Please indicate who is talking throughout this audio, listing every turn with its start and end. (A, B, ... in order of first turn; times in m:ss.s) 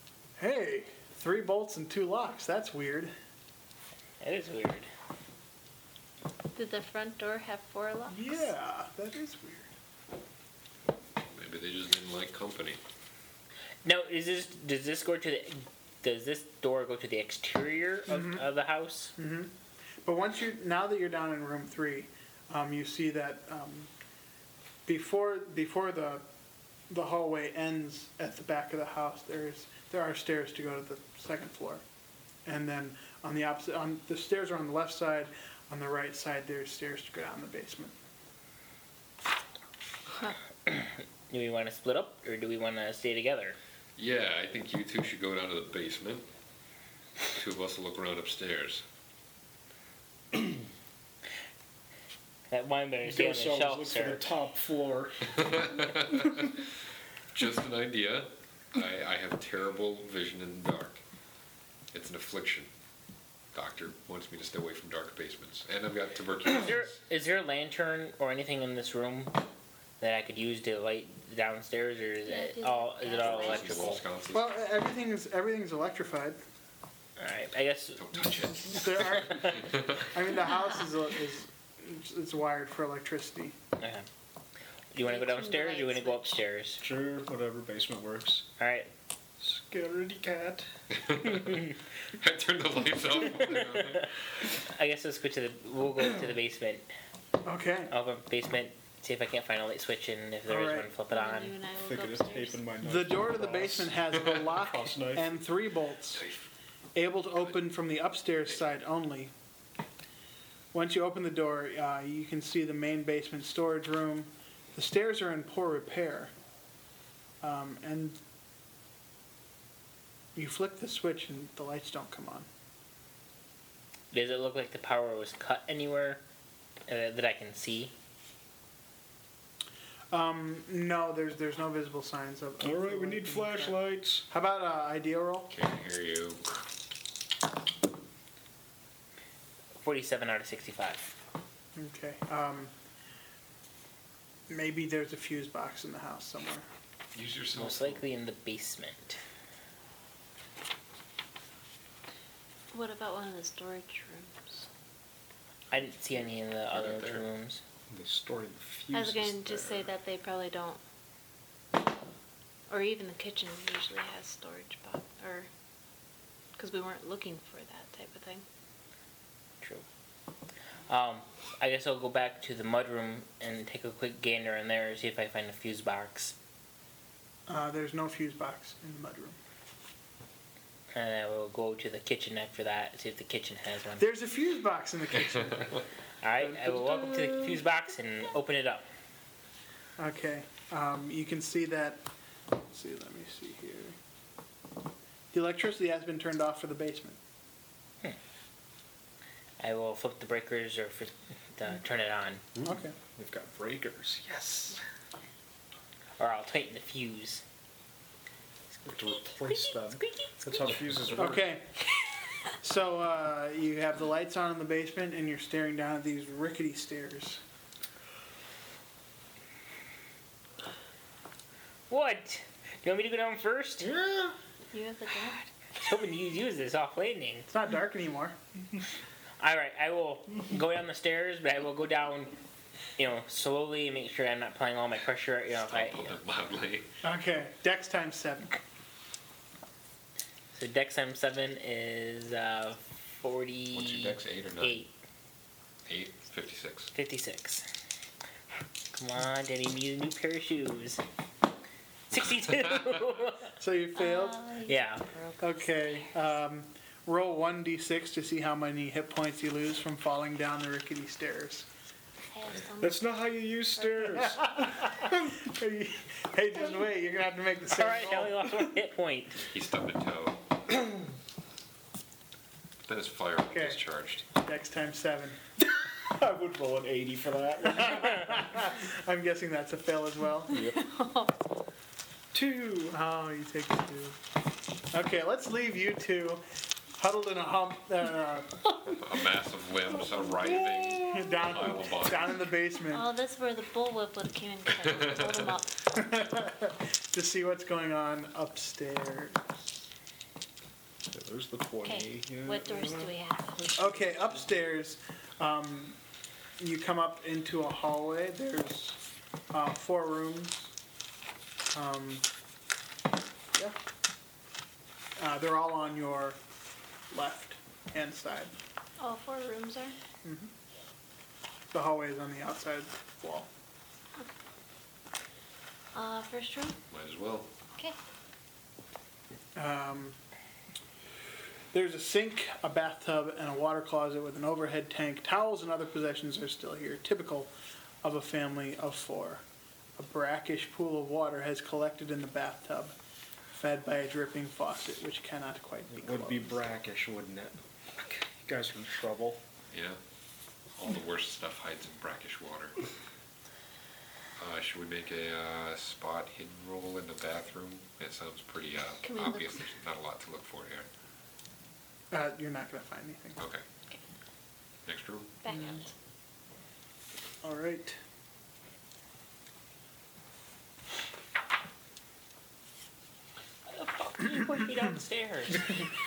0:00.4-0:03.1 A
0:04.2-0:04.9 B
0:06.6-0:08.5 C
0:08.1-0:09.7 A
0:11.2-0:12.8 D
0:13.8-0:19.2 B
0:18.1-0:18.4 A
0:19.2-0:19.5 A
0:20.0-0:23.9 A
0:24.9-0:26.2 A
0:26.9-0:31.8 A
0:32.4-0:37.9 A
0:40.7-0:43.6 B
0:44.0-0:46.3 D
0:47.3-0:48.8 D
0:52.5-0:54.3 B
0:53.0-0:56.3 E
0:55.3-0:56.6 D
0:57.4-1:01.0 D
1:01.9-1:02.7 D
1:03.5-1:06.9 D
1:06.5-1:09.4 B
1:10.0-1:14.0 B
1:12.3-1:14.0 C
1:13.2-1:14.5 D
1:14.3-1:16.4 A
1:17.2-1:18.3 B
1:18.0-1:20.1 D
1:18.7-1:23.6 A
1:23.8-1:24.1 B
1:24.9-1:26.8 B
1:25.0-1:26.4 C
1:26.8-1:28.5 E
1:28.6-1:28.9 B
1:29.4-1:30.6 E
1:30.9-1:34.1 D
1:33.5-1:34.1 B
1:34.7-1:36.9 B
1:37.4-1:37.9 A
1:37.9-1:41.6 B
1:40.5-1:40.9 A
1:41.1-1:42.6 C
1:41.8-1:45.3 E
1:42.8-1:46.2 A
1:46.1-1:46.5 D
1:47.0-1:49.3 A
1:50.7-1:56.3 A
1:57.4-1:58.2 A
2:00.4-2:02.5 A
2:04.1-2:06.2 B
2:06.9-2:07.9 B
2:10.1-2:15.5 A
2:12.6-2:14.3 E
2:15.5-2:16.6 D
2:19.8-2:21.1 B
2:21.8-2:22.7 A
2:24.5-2:26.6 A
2:27.2-2:28.0 D
2:27.5-2:29.2 B
2:32.7-2:34.7 C
2:35.7-2:37.6 B
2:36.7-2:37.2 D
2:37.9-2:39.9 E
2:38.9-2:40.8 C
2:42.7-2:45.5 C
2:46.6-2:48.4 C
2:50.9-2:56.4 B
2:57.5-2:59.4 A
3:00.9-3:04.0 B
3:04.0-3:05.8 A
3:06.2-3:08.9 B
3:06.4-3:07.6 E
3:10.0-3:12.0 A
3:12.7-3:14.0 A
3:15.3-3:17.2 A
3:19.6-3:22.4 B
3:22.6-3:24.8 E
3:22.6-3:23.0 A
3:26.2-3:27.4 B
3:28.8-3:30.8 B
3:28.9-3:31.5 E
3:31.2-3:31.7 A
3:32.5-3:37.4 A
3:41.9-3:44.0 B
3:43.9-3:44.3 E
3:44.7-3:45.5 C
3:45.8-3:47.5 B
3:47.5-3:48.4 A
3:49.4-3:52.4 B
3:53.0-3:56.2 B
3:55.6-3:57.0 D
3:57.0-3:58.6 A
4:00.5-4:04.9 B
4:03.7-4:04.8 D
4:05.9-4:06.9 D
4:06.9-4:07.6 B
4:08.9-4:11.0 B
4:12.1-4:13.5 B
4:13.6-4:14.4 A
4:14.0-4:16.2 C
4:14.7-4:15.0 B
4:15.4-4:21.7 A
4:22.3-4:23.3 C
4:22.8-4:24.9 E
4:24.3-4:28.4 A
4:27.7-4:29.5 B
4:29.5-4:30.4 D
4:32.9-4:34.2 D
4:33.5-4:33.8 A
4:34.4-4:35.4 A
4:35.6-4:38.5 E
4:37.7-4:40.6 A
4:40.5-4:40.8 E
4:40.5-4:41.3 C
4:42.3-4:42.9 E
4:42.8-4:44.2 A
4:44.9-4:46.4 A
4:47.0-4:48.7 A
4:48.9-4:52.4 D
4:50.4-4:51.3 E
4:51.1-4:53.1 A
4:52.8-4:55.8 C
4:54.7-4:55.5 D
4:55.9-4:59.7 A
5:01.1-5:04.3 E
5:01.8-5:03.6 C
5:03.8-5:06.0 A
5:06.6-5:09.0 A
5:09.5-5:10.7 A
5:11.7-5:12.2 A
5:15.2-5:16.4 A
5:17.1-5:18.5 A
5:19.0-5:20.0 C
5:20.2-5:20.5 A
5:21.7-5:23.5 A
5:25.9-5:26.8 C
5:26.9-5:27.5 D
5:29.6-5:30.2 A
5:31.7-5:37.5 A
5:38.0-5:39.4 A
5:40.0-5:43.0 A
5:43.5-5:46.6 A
5:45.9-5:49.4 E
5:49.7-5:50.0 D
5:50.8-5:52.8 D
5:54.4-6:00.9 D
5:59.0-5:59.7 C
6:02.1-6:03.4 A
6:03.4-6:03.6 D
6:04.9-6:05.4 D
6:05.4-6:05.9 C
6:07.4-6:08.0 A
6:13.7-6:15.8 B